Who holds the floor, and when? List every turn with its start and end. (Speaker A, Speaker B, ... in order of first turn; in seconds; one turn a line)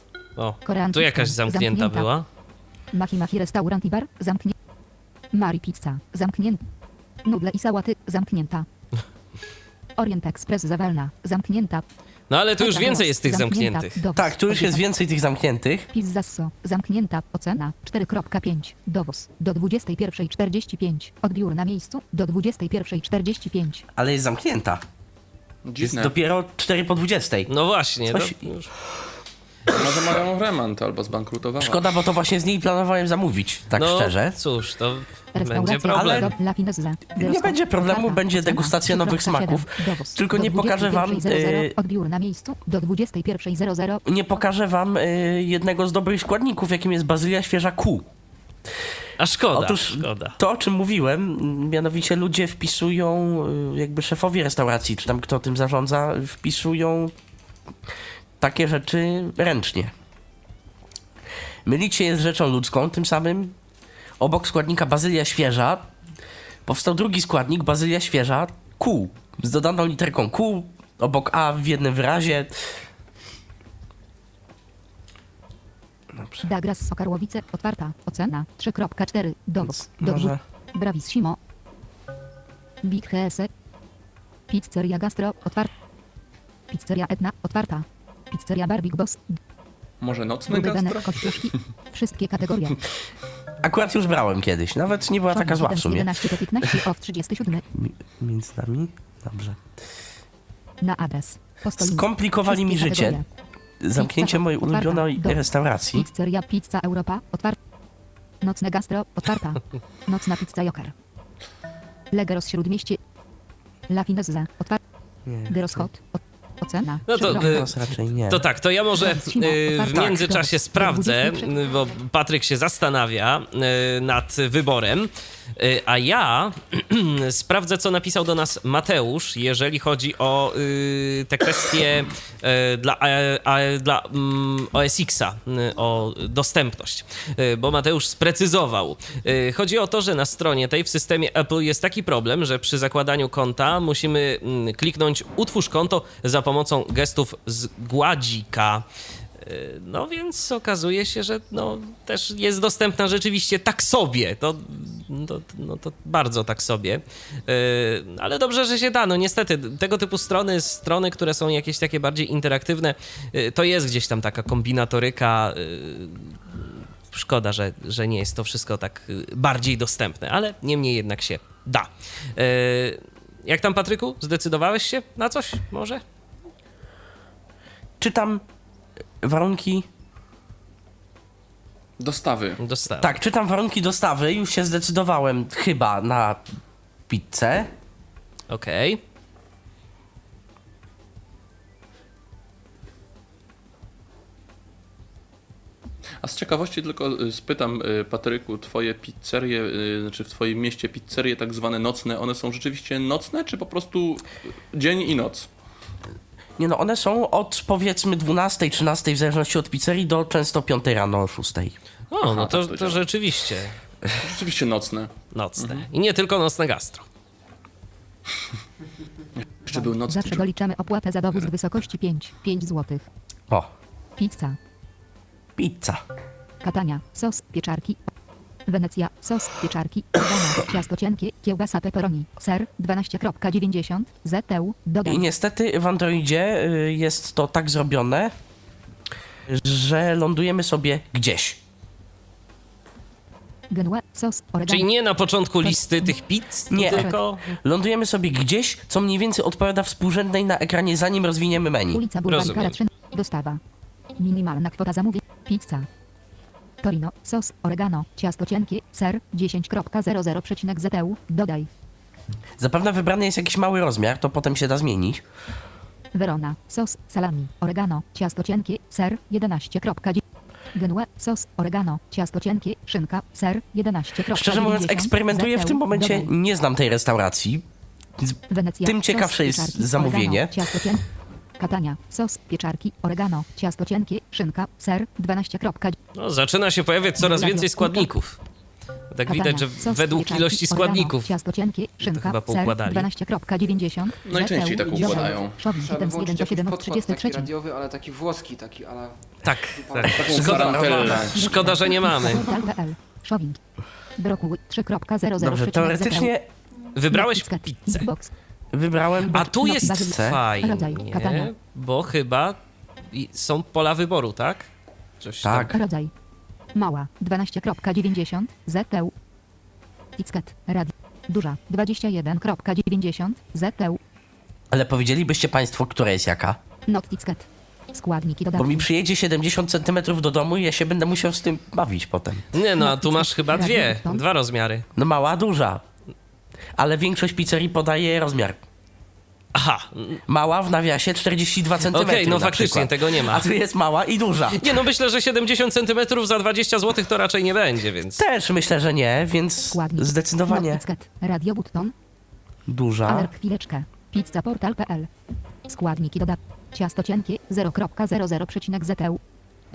Speaker A: 0.4-2.2
Speaker B: 0.6-2.1
Speaker B: 2.9-4.5
Speaker B: 5.3-6.6
Speaker B: 7.2-8.7
Speaker B: 10.0-11.8
Speaker A: 12.3-13.9
Speaker B: 12.6-14.8
Speaker C: 14.1-15.9
Speaker B: 15.9-23.8
Speaker C: 23.9-24.8
Speaker D: 25.6-26.1
Speaker C: 25.8-27.5
Speaker A: 27.5-28.7
Speaker C: 28.1-28.5
Speaker D: 29.7-31.9
Speaker C: 31.6-34.4
Speaker A: 33.8-36.3
Speaker B: 35.3-44.0
Speaker C: 35.9-36.3
Speaker C: 37.2-41.7
Speaker C: 44.0-48.0
Speaker A: 49.2-50.4
Speaker C: 49.5-57.1
Speaker C: 58.4-59.9
Speaker C: 61.6-63.5
Speaker C: 64.2-65.9
Speaker C: 66.7-72.6
Speaker C: 76.1-76.5
Speaker B: 76.4-81.4
Speaker C: 79.6-80.4
Speaker B: 82.8-83.5
Speaker B: 84.5-85.7
Speaker B: 86.7-89.4
Speaker D: 90.0-91.5
Speaker B: 90.5-92.8
Speaker C: 93.6-96.8
Speaker B: 95.3-97.6
Speaker C: 97.7-99.6
Speaker B: 100.8-103.2
Speaker C: 101.8-103.2
Speaker C: 103.8-106.0
Speaker B: 103.9-107.6
Speaker B: 108.4-110.9
Speaker B: 112.1-113.0
Speaker B: 113.9-114.8
Speaker C: 115.2-115.9
Speaker B: 115.5-117.6
Speaker A: 117.1-148.8
Speaker C: 117.1-118.5
Speaker B: 119.0-121.7
Speaker A: 149.4-176.0
Speaker C: 178.0-178.4
Speaker C: 179.2-179.9
Speaker D: 182.0-182.6
Speaker A: 182.6-183.2
Speaker C: 183.0-186.4
Speaker C: 187.1-187.7
Speaker A: 188.5-189.0
Speaker D: 196.2-205.5
Speaker C: 206.6-211.8
Speaker A: 212.1-213.8
Speaker D: 212.2-213.0
Speaker D: 214.2-215.9
Speaker A: 215.3-217.0
Speaker D: 219.4-220.5
Speaker B: 219.7-223.1
Speaker B: 224.2-224.6
Speaker C: 225.6-226.0
Speaker B: 226.6-228.1
Speaker B: 228.7-235.2
Speaker C: 235.0-238.3
Speaker C: 239.5-241.6
Speaker B: 243.7-244.9
Speaker A: 244.7-247.6
Speaker B: 245.6-246.2
Speaker C: 246.7-252.0
Speaker B: 246.9-247.1
Speaker B: 251.9-253.6
Speaker A: 252.3-252.7
Speaker B: 254.2-255.9
Speaker B: 256.8-261.7
Speaker C: 262.6-265.2
Speaker B: 266.1-270.2
Speaker B: 270.7-276.3
Speaker C: 274.3-277.6
Speaker C: 278.2-281.0
Speaker B: 278.5-281.1
Speaker B: 281.6-286.0
Speaker A: 286.1-288.4
Speaker B: 287.2-288.1
Speaker A: 289.1-291.3
Speaker B: 289.2-297.5
Speaker A: 292.0-293.1
Speaker D: 294.2-295.6
Speaker E: 294.9-301.1
Speaker A: 299.4-302.6
Speaker D: 300.1-301.4
Speaker C: 300.1-301.4
Speaker B: 301.3-303.6
Speaker B: 304.2-306.3
Speaker C: 305.4-306.4
Speaker A: 306.9-308.1
Speaker B: 307.1-308.3
Speaker C: 308.7-310.4
Speaker B: 309.3-311.5
Speaker A: 309.4-312.6
Speaker A: 313.1-314.7
Speaker A: 315.2-315.7
Speaker C: 315.4-315.8
Speaker B: 315.7-316.1
Speaker B: 316.7-319.1
Speaker B: 320.2-324.0
Speaker C: 324.7-326.6
Speaker B: 326.9-328.9
Speaker C: 328.6-332.5
Speaker A: 332.5-334.9
Speaker B: 332.8-334.2
Speaker C: 334.9-335.8
Speaker C: 336.8-338.6
Speaker A: 339.5-340.2
Speaker C: 340.3-344.9
Speaker A: 341.8-343.5
Speaker A: 344.5-348.2
Speaker C: 348.1-350.8
Speaker B: 349.7-351.9
Speaker C: 352.7-353.3
Speaker B: 353.1-355.1
Speaker B: 355.7-359.2